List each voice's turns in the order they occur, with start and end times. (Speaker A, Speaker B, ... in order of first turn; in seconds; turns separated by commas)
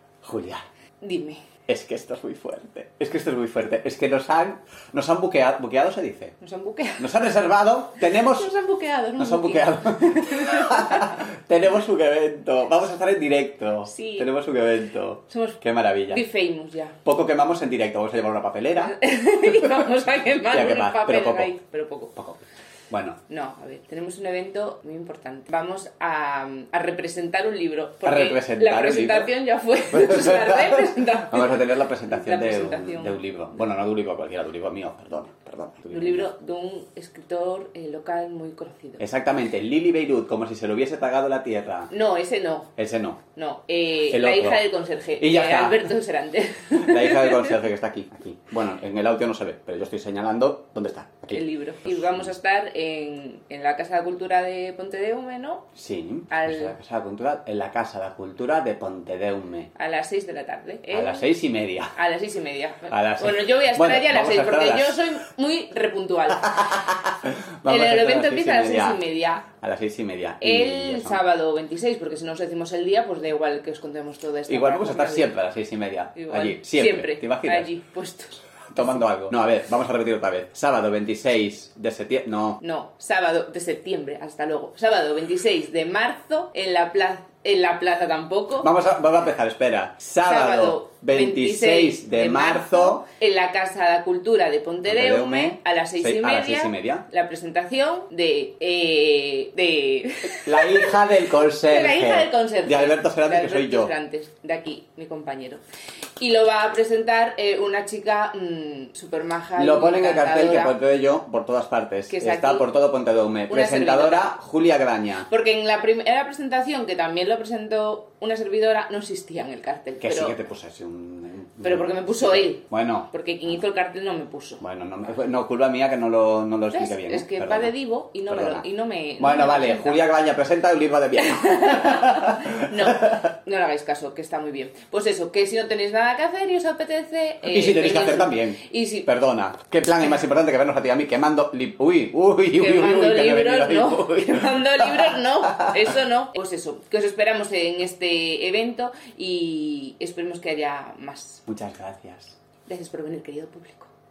Speaker A: 0.2-0.7, Speaker B: 1.0-1.4, Speaker A: 1.7-6.3, Speaker B: 6.4-7.1, Speaker A: 7.0-8.5, Speaker B: 8.0-11.2, Speaker A: 9.2-16.2, Speaker B: 13.8-14.3, Speaker B: 15.3-17.0, Speaker A: 17.0-19.0, Speaker B: 18.8-22.1, Speaker A: 19.5-19.8, Speaker A: 20.5-21.6, Speaker A: 22.1-23.2, Speaker B: 23.3-33.2, Speaker A: 28.0-29.3, Speaker A: 29.9-36.3, Speaker B: 35.9-39.0, Speaker A: 39.0-41.9, Speaker B: 41.9-42.7, Speaker A: 42.8-43.2, Speaker B: 43.3-47.6, Speaker A: 44.1-45.9, Speaker A: 46.8-52.3, Speaker B: 51.3-55.7, Speaker A: 55.7-59.7, Speaker B: 56.3-56.8, Speaker B: 59.7-61.3, Speaker A: 60.9-61.9, Speaker B: 61.9-66.9, Speaker A: 62.9-65.1, Speaker A: 66.4-71.2, Speaker B: 67.7-69.5, Speaker B: 70.4-75.3, Speaker A: 74.5-77.7, Speaker B: 76.1-78.9, Speaker A: 78.7-82.6, Speaker B: 82.6-88.7, Speaker A: 88.6-93.0, Speaker B: 90.2-101.0, Speaker A: 94.8-97.0, Speaker A: 100.4-103.9, Speaker B: 101.6-105.6, Speaker B: 106.2-110.8, Speaker A: 109.5-115.3, Speaker B: 112.1-112.7, Speaker B: 113.5-114.3, Speaker B: 115.2-120.4, Speaker A: 120.0-123.1, Speaker B: 121.6-124.6, Speaker A: 124.6-128.6, Speaker B: 126.7-130.0, Speaker A: 129.2-133.2, Speaker B: 131.1-139.1, Speaker A: 137.4-145.9, Speaker B: 142.5-151.4, Speaker A: 151.5-152.4, Speaker B: 152.6-153.9